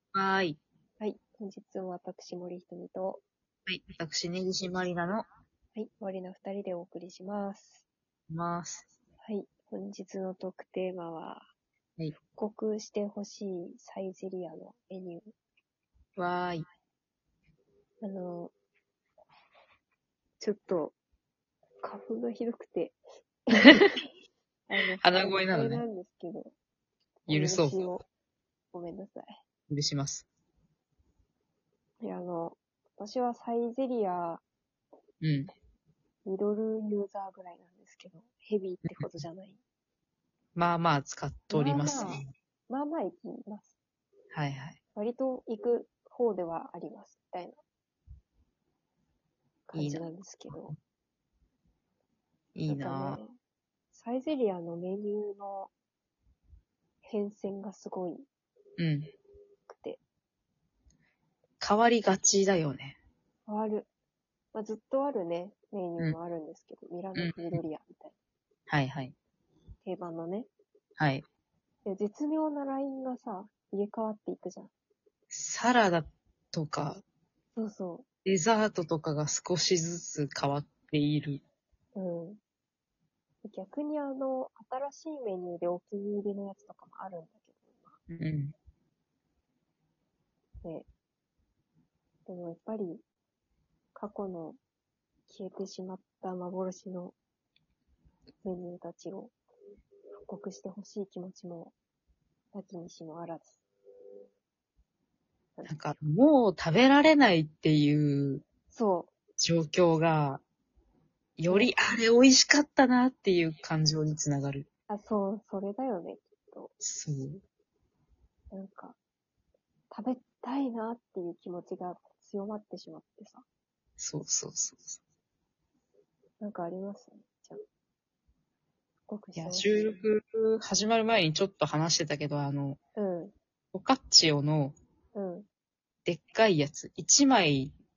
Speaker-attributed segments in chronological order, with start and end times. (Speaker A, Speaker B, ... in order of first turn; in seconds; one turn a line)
Speaker A: 0.1-0.6
Speaker B: 1.0-3.2
Speaker A: 3.7-5.2
Speaker B: 5.8-7.8
Speaker A: 8.3-8.9
Speaker B: 9.2-11.4
Speaker B: 12.3-15.3
Speaker A: 16.1-16.6
Speaker B: 18.0-18.5
Speaker B: 20.4-20.9
Speaker B: 21.8-23.0
Speaker B: 23.5-24.0
Speaker B: 24.7-26.5
Speaker A: 25.0-25.8
Speaker B: 27.3-28.0
Speaker A: 27.3-27.8
Speaker B: 28.7-29.4
Speaker A: 29.7-30.2
Speaker B: 32.0-34.4
Speaker A: 35.2-35.5
Speaker B: 36.2-39.6
Speaker A: 38.8-39.1
Speaker A: 40.5-42.2
Speaker B: 41.5-43.7
Speaker A: 44.3-44.8
Speaker B: 44.9-47.6
Speaker B: 49.7-50.8
Speaker A: 49.7-50.8
Speaker A: 52.5-53.2
Speaker B: 52.7-53.4
Speaker B: 53.9-55.7
Speaker B: 57.0-58.2
Speaker A: 58.8-59.1
Speaker B: 59.7-60.0
Speaker A: 61.6-63.0
Speaker B: 63.5-63.9
Speaker B: 64.5-68.2
Speaker A: 67.2-67.6
Speaker A: 68.7-69.1
Speaker B: 69.8-70.5
Speaker A: 71.0-71.2
Speaker B: 71.8-74.7
Speaker A: 75.3-77.0
Speaker B: 77.5-78.0
Speaker A: 78.2-81.4
Speaker B: 81.9-82.4
Speaker B: 83.4-88.0
Speaker A: 88.1-88.5
Speaker B: 90.6-90.9
Speaker B: 92.2-93.0
Speaker B: 93.9-94.6
Speaker B: 95.3-97.2
Speaker B: 98.4-99.3
Speaker B: 100.1-101.7
Speaker B: 102.5-103.6
Speaker A: 105.6-108.4
Speaker B: 108.7-109.1
Speaker A: 109.4-110.4
Speaker A: 111.4-114.7
Speaker B: 114.9-116.7
Speaker A: 116.8-117.4
Speaker B: 118.5-119.0
Speaker B: 119.9-123.4
Speaker A: 124.0-125.0
Speaker B: 126.4-127.6
Speaker B: 129.1-129.8
Speaker A: 129.3-132.8
Speaker B: 132.9-133.3
Speaker A: 133.7-134.8
Speaker B: 135.1-135.5
Speaker A: 136.0-137.7